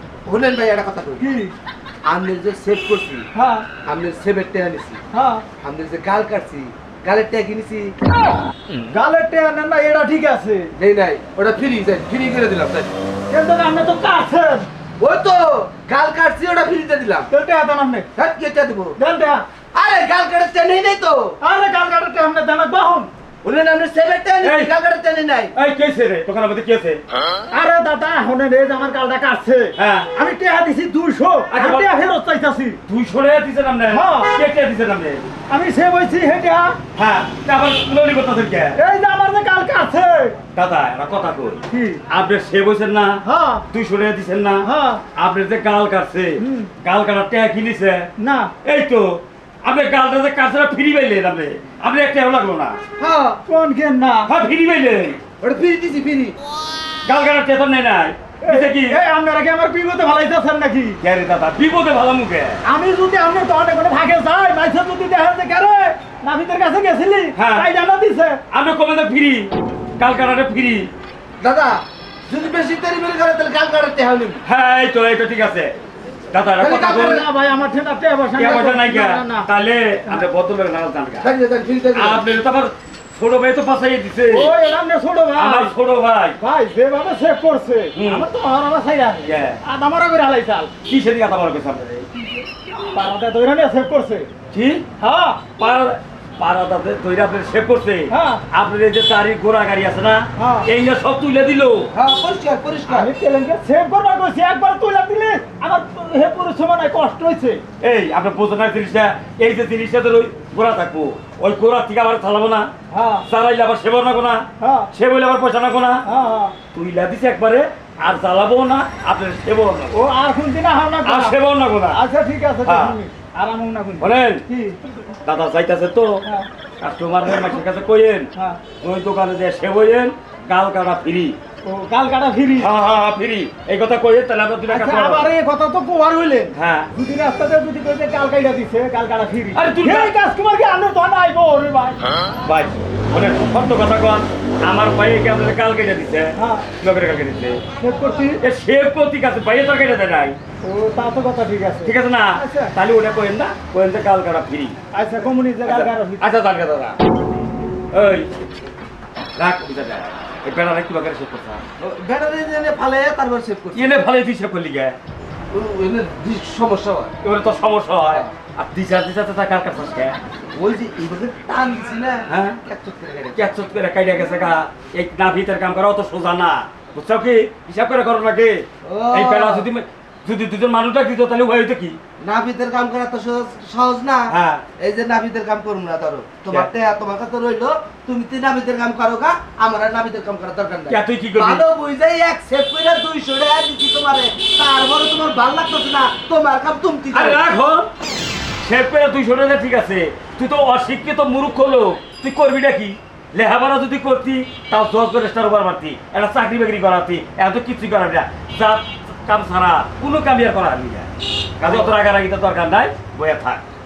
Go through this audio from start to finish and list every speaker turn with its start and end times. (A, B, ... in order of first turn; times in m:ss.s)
0:00.2-0:01.2 A
0:01.2-0:01.5 B
0:02.0-0:03.2 A
0:03.3-0:03.7 B
0:03.8-0:05.0 A
0:05.1-0:05.4 B
0:05.6-0:07.9 A
0:08.9-0:10.7 B
0:10.8-0:12.9 A
0:13.3-0:14.7 B
0:15.0-0:17.3 A
0:17.3-0:18.1 B
0:18.1-0:18.9 A
0:19.0-0:19.4 B
0:19.7-0:21.3 A
0:21.4-0:23.1 B
0:23.4-0:25.5 A
0:24.4-0:24.7 C
0:25.5-0:27.0 C
0:27.5-0:32.8 B
0:29.8-0:30.1 C
0:31.5-0:31.9 C
0:32.9-0:35.3 C
0:33.9-0:34.3 B
0:35.5-0:36.8 B
0:36.9-0:38.8 C
0:38.7-0:40.4 B
0:40.5-0:48.1 C
0:41.7-0:42.0 B
0:43.2-0:43.6 B
0:44.6-0:45.0 B
0:46.4-0:46.7 B
0:48.2-0:48.5 B
0:48.6-0:52.8 C
0:53.0-0:53.4 A
0:53.4-0:54.3 B
0:54.3-0:55.2 C
0:55.4-0:56.4 A
0:57.0-0:59.0 C
0:58.4-1:01.0 B
1:01.0-1:02.6 C
1:02.6-1:08.4 B
1:07.3-1:07.7 C
1:08.5-1:10.9 C
1:11.4-1:14.4 A
1:14.4-1:15.7 C
1:16.3-1:17.2 C
1:16.6-1:17.2 A
1:17.0-1:19.5 B
1:18.3-1:21.3 C
1:21.2-1:22.3 A
1:21.9-1:24.5 C
1:24.3-1:25.7 B
1:25.4-1:26.4 C
1:26.4-1:30.7 B
1:27.9-1:28.3 C
1:29.2-1:29.6 C
1:30.8-1:32.1 C
1:32.8-1:34.3 B
1:34.5-1:34.8 C
1:35.0-1:35.5 B
1:35.6-1:41.9 C
1:38.1-1:38.4 B
1:40.4-1:40.7 B
1:41.9-1:43.1 A
1:42.9-1:47.6 B
1:47.8-1:52.7 C
1:52.9-1:53.2 B
1:53.2-1:56.0 C
1:54.6-1:54.9 B
1:56.0-1:56.5 B
1:56.7-2:00.0 C
1:59.9-2:01.4 B
2:01.0-2:02.0 C
2:01.9-2:04.8 B
2:02.6-2:03.0 C
2:04.0-2:04.4 C
2:05.2-2:06.2 C
2:06.8-2:08.3 C
2:08.8-2:11.4 C
2:11.6-2:12.7 B
2:12.6-2:15.3 C
2:14.7-2:22.0 B
2:16.5-2:16.9 C
2:19.5-2:20.1 C
2:22.4-2:27.6 C
2:26.4-2:26.7 B
2:27.8-2:28.4 B
2:28.4-2:30.4 C
2:30.6-2:32.7 B
2:31.8-2:34.8 C
2:34.9-2:36.3 B
2:35.6-2:37.0 C
2:37.9-2:38.3 C
2:39.4-2:41.6 C
2:41.8-2:44.0 A
2:43.7-2:45.0 C
2:45.5-2:47.1 A
2:47.2-2:50.2 C
2:50.5-2:53.5 A
2:52.3-2:52.6 C
2:53.3-3:02.0 C
2:58.8-2:59.7 A
3:02.2-3:17.5 A
3:04.3-3:04.6 C
3:10.9-3:11.6 C
3:17.1-3:17.9 C
3:18.6-3:33.6 C
3:31.6-3:31.9 A